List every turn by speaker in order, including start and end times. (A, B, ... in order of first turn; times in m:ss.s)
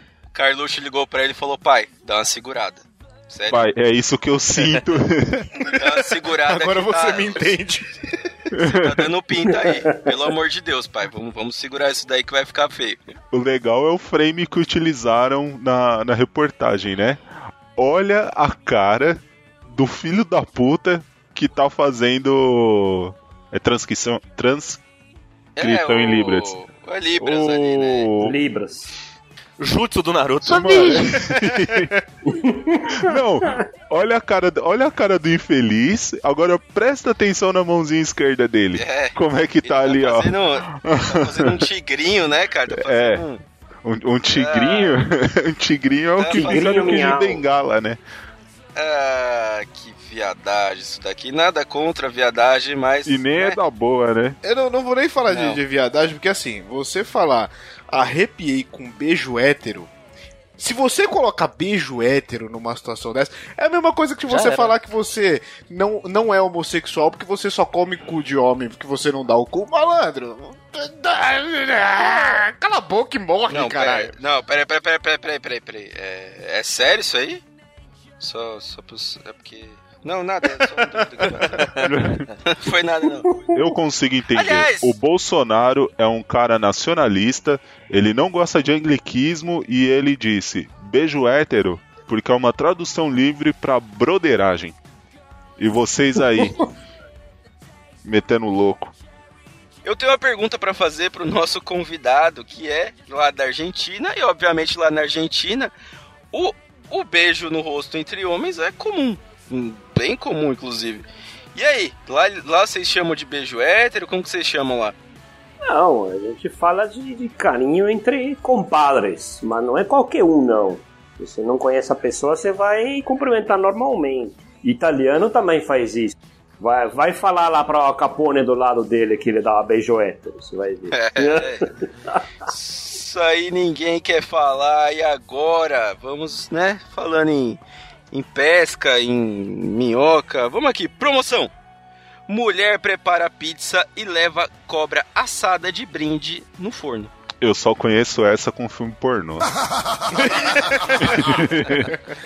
0:00.3-0:03.6 A
0:03.5-0:05.6 B
0:05.7-0:07.5 A
0:05.8-0:08.3 C
0:08.5-0:09.0 B
0:08.6-0:13.1 A
0:09.5-0:09.8 D
0:13.3-0:17.2 B
0:17.8-0:24.8 B
0:25.6-0:28.1 A
0:25.6-0:26.5 B
0:27.2-0:28.4 B
0:28.2-0:28.9 D
0:29.6-0:31.2 E
0:30.5-0:31.9 B
0:31.0-0:31.9 C
0:32.3-0:33.1 D
0:33.0-0:41.6 B
0:38.8-0:43.4 A
0:42.7-0:43.3 B
0:43.8-0:48.0 B
0:44.3-0:45.0 A
0:46.2-0:46.7 A
0:46.3-0:47.5 D
0:48.8-0:53.6 A
0:53.1-0:54.4 B
0:54.4-0:59.9 C
1:00.6-1:14.2 C
1:04.3-1:04.8 E
1:13.5-1:17.4 A
1:18.2-1:21.9 A
1:21.2-1:21.8 C
1:21.9-1:22.3 B
1:22.4-1:23.3 A
1:23.3-1:23.6 D
1:23.5-1:34.8 B
1:24.3-1:24.9 A
1:35.6-1:36.7 B
1:38.0-1:38.9 B
1:39.8-1:45.7 A
1:46.3-1:55.0 A
1:55.7-2:12.2 D
2:10.9-2:11.7 A
2:12.5-2:17.6 A
2:18.1-2:21.5 A
2:22.3-2:27.1 A
2:27.4-2:29.5 B
2:30.3-2:31.4 C
2:31.0-2:31.9 B